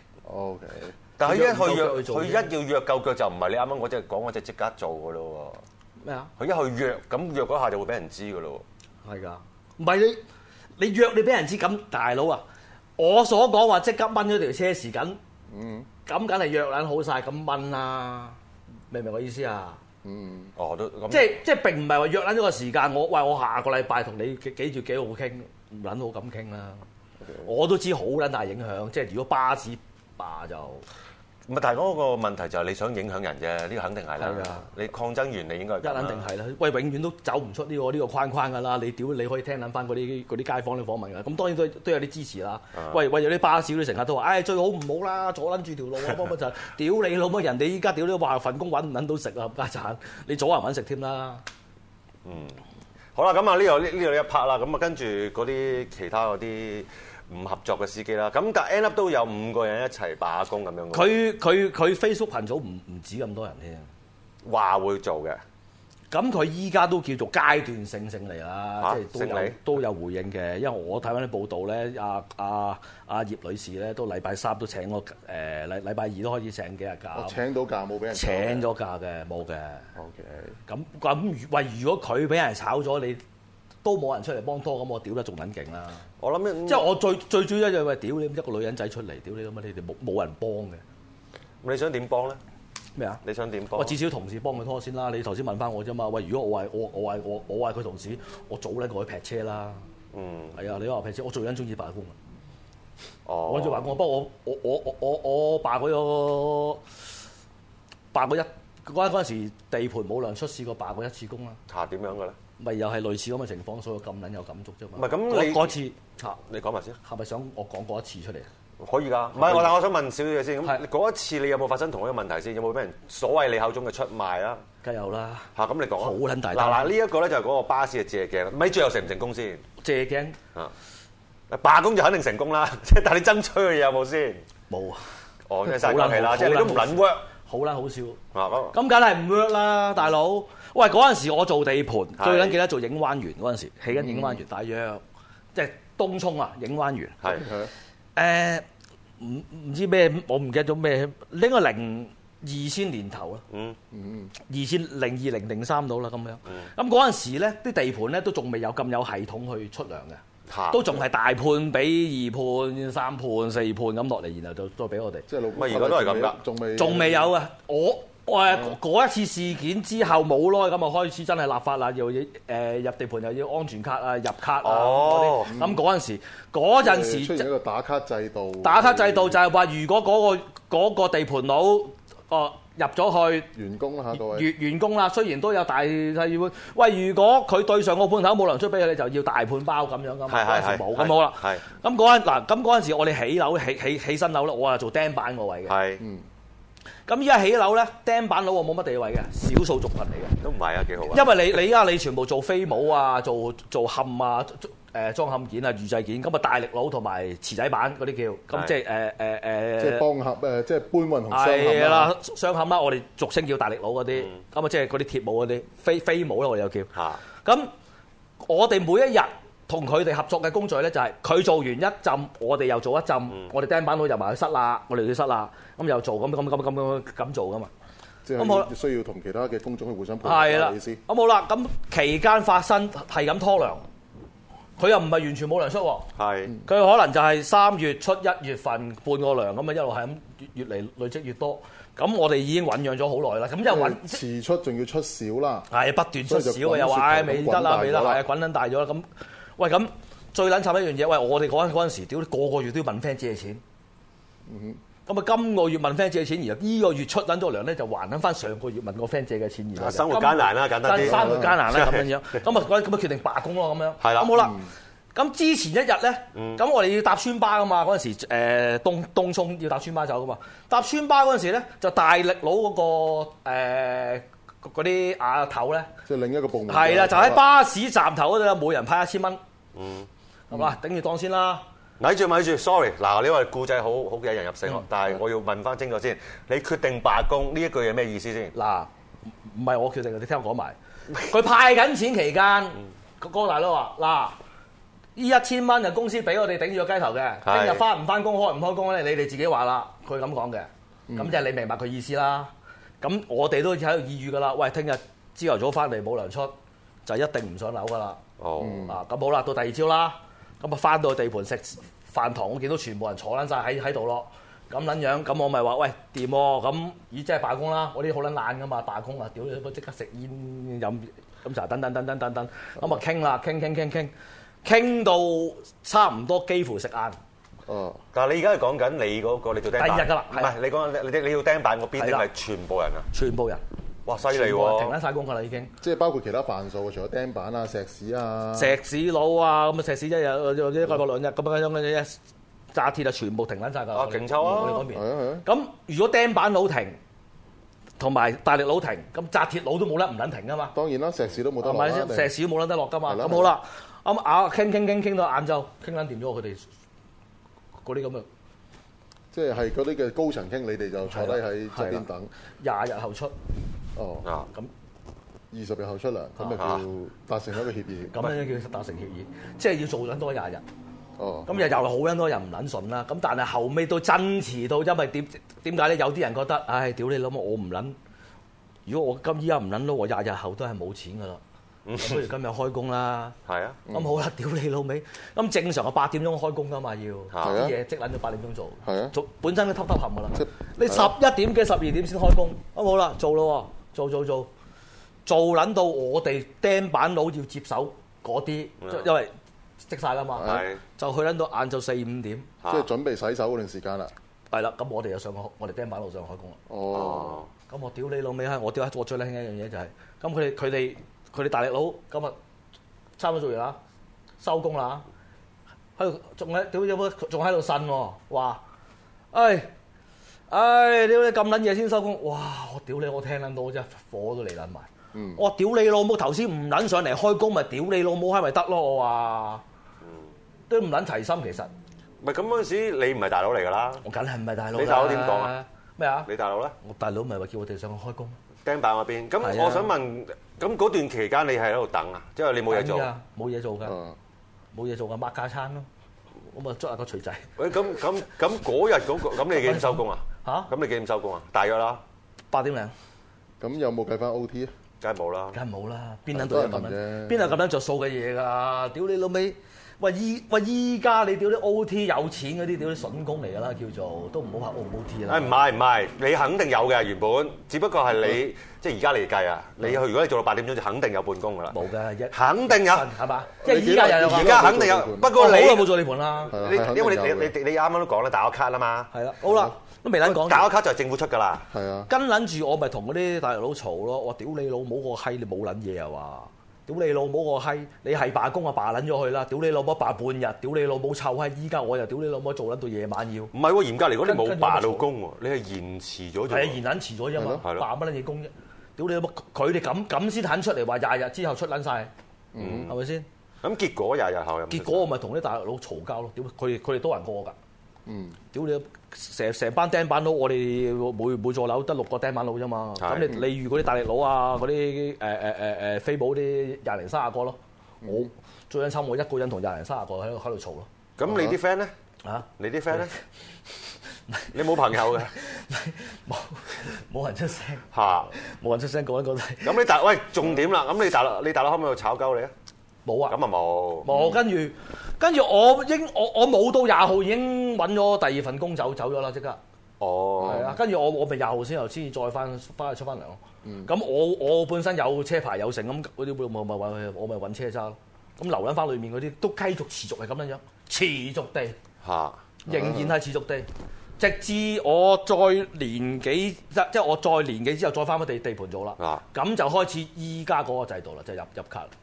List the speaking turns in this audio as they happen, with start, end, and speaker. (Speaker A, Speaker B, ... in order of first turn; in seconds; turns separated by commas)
Speaker A: 0.2-0.9, Speaker B: 1.2-5.6, Speaker C: 1.2-2.5, Speaker C: 6.0-6.3, Speaker B: 6.4-8.6, Speaker C: 9.0-10.2, Speaker C: 10.8-12.4, Speaker C: 13.0-15.2, Speaker A: 15.5-15.9, Speaker C: 16.1-18.4, Speaker C: 18.9-19.8, Speaker A: 20.0-20.5, Speaker B: 20.6-21.4, Speaker C: 21.1-26.8, Speaker A: 27.2-27.5, Speaker C: 27.4-30.8, Speaker B: 31.5-36.2, Speaker C: 34.2-34.7, Speaker C: 35.8-51.4, Speaker B: 52.2-52.6, Speaker B: 53.1-61.2, Speaker C: 60.9-63.9, Speaker B: 64.5-65.4, Speaker C: 66.1-77.4, Speaker B: 68.8-69.6, Speaker A: 77.1-78.7, Speaker C: 78.1-79.9, Speaker A: 80.0-80.6, Speaker C: 80.7-83.2, Speaker C: 83.8-86.0, Speaker B: 86.2-86.9, Speaker C: 86.7-90.8, Speaker B: 91.6-92.4, Speaker C: 93.0-93.2, Speaker B: 93.2-94.0, Speaker C: 93.8-99.8, Speaker B: 100.1-100.6, Speaker C: 100.5-102.2, Speaker B: 103.3-103.9, Speaker C: 103.5-106.8, Speaker C: 108.1-111.6, Speaker B: 111.7-112.4, Speaker C: 112.6-116.4, Speaker B: 115.0-115.8, Speaker B: 116.4-117.0, Speaker C: 117.0-118.5, Speaker B: 118.8-124.6, Speaker C: 119.4-119.7, Speaker C: 124.8-126.9, Speaker B: 125.6-129.6, Speaker C: 129.8-130.4, Speaker B: 131.5-134.4, Speaker C: 134.7-135.1, Speaker B: 135.5-137.2, Speaker C: 135.7-138.2, Speaker B: 138.3-138.7, Speaker C: 138.7-145.0, Speaker B: 142.2-142.6, Speaker A: 144.0-144.4, Speaker C: 145.6-147.2, Speaker A: 147.3-147.7, Speaker C: 148.2-148.7, Speaker C: 149.2-153.4, Speaker B: 153.5-153.8, Speaker A: 153.9-154.3, Speaker C: 154.5-165.3, Speaker B: 160.5-161.0, Speaker A: 165.3-167.3, Speaker B: 165.6-166.4, Speaker C: 166.8-177.5, Speaker B: 174.6-175.5, Speaker A: 175.5-175.8, Speaker A: 176.8-179.4, Speaker C: 178.6-183.5, Speaker A: 183.5-184.5, Speaker C: 184.1-195.7, Speaker B: 190.3-191.6, Speaker B: 195.7-196.0, Speaker A: 196.0-196.2, Speaker C: 197.1-200.4, Speaker B: 200.4-201.3, Speaker C: 201.1-210.1, Speaker A: 209.8-212.1, Speaker C: 211.3-216.9, Speaker B: 216.9-217.2, Speaker C: 217.4-217.7, Speaker C: 218.4-227.7, Speaker A: 228.2-231.0, Speaker C: 228.4-228.7, Speaker C: 230.2-233.9, Speaker C: 234.8-236.1, Speaker B: 236.2-236.5, Speaker C: 236.7-244.2, Speaker A: 243.7-245.7, Speaker C: 245.7-249.1, Speaker A: 246.2-248.3, Speaker C: 249.6-253.6, Speaker A: 254.5-254.8, Speaker C: 255.1-264.6, Speaker B: 259.8-262.1, Speaker A: 261.0-261.6, Speaker B: 264.0-264.5, Speaker C: 265.1-275.9, Speaker B: 266.4-266.6, Speaker A: 276.1-277.4, Speaker C: 276.7-279.4, Speaker B: 279.8-280.1, Speaker C: 280.5-281.6, Speaker B: 282.0-288.5, Speaker C: 288.5-288.9, Speaker C: 289.4-294.4, Speaker C: 295.2-308.2, Speaker B: 297.4-297.8, Speaker A: 301.1-301.4, Speaker B: 308.4-308.9, Speaker A: 308.6-309.0, Speaker C: 308.9-324.1, Speaker C: 324.6-327.2, Speaker A: 327.7-328.0, Speaker B: 328.1-333.1, Speaker C: 329.8-330.5, Speaker C: 332.0-332.3, Speaker C: 333.1-333.6, Speaker B: 334.1-334.9, Speaker C: 334.3-335.7, Speaker A: 335.8-338.8, Speaker C: 338.6-342.2, Speaker C: 342.7-347.0, Speaker B: 343.9-344.8, Speaker A: 344.4-345.4, Speaker C: 348.0-350.8, Speaker A: 350.7-352.3, Speaker C: 351.6-356.7, Speaker A: 353.1-353.5, Speaker C: 357.8-358.3, Speaker A: 359.3-362.3, Speaker C: 361.1-362.1, Speaker C: 362.6-363.3, Speaker A: 364.0-364.3, Speaker A: 365.5-368.3, Speaker B: 366.6-366.8, Speaker C: 368.1-370.6, Speaker A: 371.2-371.5, Speaker C: 371.5-378.0, Speaker C: 378.9-381.4, Speaker B: 381.9-382.2, Speaker C: 382.0-383.4, Speaker B: 383.5-383.8, Speaker A: 383.9-384.1, Speaker C: 383.9-394.5, Speaker B: 387.3-387.6, Speaker A: 387.4-387.8, Speaker A: 388.8-389.1, Speaker A: 390.4-391.1, Speaker C: 395.3-399.3, Speaker B: 398.8-399.1, Speaker C: 399.9-402.5, Speaker A: 400.4-400.6, Speaker B: 400.4-400.8, Speaker A: 402.7-404.1, Speaker C: 404.5-406.6, Speaker A: 406.7-407.4, Speaker B: 406.9-407.5, Speaker C: 407.7-412.4, Speaker C: 413.2-413.8, Speaker C: 414.4-415.1, Speaker C: 416.0-418.6, Speaker C: 419.3-419.7, Speaker C: 420.5-429.6, Speaker A: 425.1-425.4, Speaker C: 430.7-431.7, Speaker B: 432.2-434.0, Speaker C: 434.0-436.3, Speaker B: 434.7-435.5, Speaker B: 436.3-436.8, Speaker C: 436.8-438.4, Speaker B: 438.6-443.1, Speaker C: 439.4-439.9, Speaker C: 442.7-444.0, Speaker A: 443.8-444.2, Speaker C: 444.7-445.9, Speaker C: 446.5-447.5, Speaker B: 447.6-452.0, Speaker C: 449.6-450.7, Speaker C: 452.5-452.9, Speaker A: 453.6-454.7, Speaker B: 455.0-455.6, Speaker C: 455.5-465.6, Speaker A: 456.3-457.6, Speaker B: 465.3-471.8, Speaker C: 471.7-474.6, Speaker B: 472.3-473.1, Speaker A: 473.6-475.4, Speaker B: 474.1-476.0, Speaker C: 475.3-476.5, Speaker B: 476.5-479.1, Speaker A: 476.5-477.5, Speaker C: 479.1-480.7, Speaker A: 479.5-479.7, Speaker B: 480.2-481.7, Speaker A: 481.7-482.1, Speaker C: 482.1-493.5, Speaker B: 493.5-496.8, Speaker C: 494.2-495.1, Speaker C: 496.5-502.1, Speaker A: 497.4-497.6, Speaker A: 502.5-502.9, Speaker B: 502.6-502.9, Speaker C: 502.9-503.3, Speaker B: 503.6-505.1, Speaker C: 504.7-507.6, Speaker A: 508.1-508.4, Speaker C: 508.5-517.6, Speaker B: 513.0-513.3, Speaker A: 518.0-518.3, Speaker C: 518.1-520.9, Speaker B: 521.2-521.9, Speaker A: 521.2-521.6, Speaker C: 522.2-523.1, Speaker B: 522.6-523.1, Speaker C: 524.3-529.8, Speaker B: 524.5-525.3, Speaker B: 527.9-528.3, Speaker B: 529.6-532.5, Speaker C: 533.0-533.4, Speaker B: 533.3-534.1, Speaker C: 534.0-539.6, Speaker A: 534.1-534.4, Speaker B: 540.0-540.7, Speaker A: 540.4-540.8, Speaker C: 540.4-551.8, Speaker A: 543.6-543.9, Speaker B: 552.0-552.4, Speaker A: 552.7-553.1, Speaker C: 552.7-553.7, Speaker C: 554.2-561.9, Speaker B: 559.0-559.2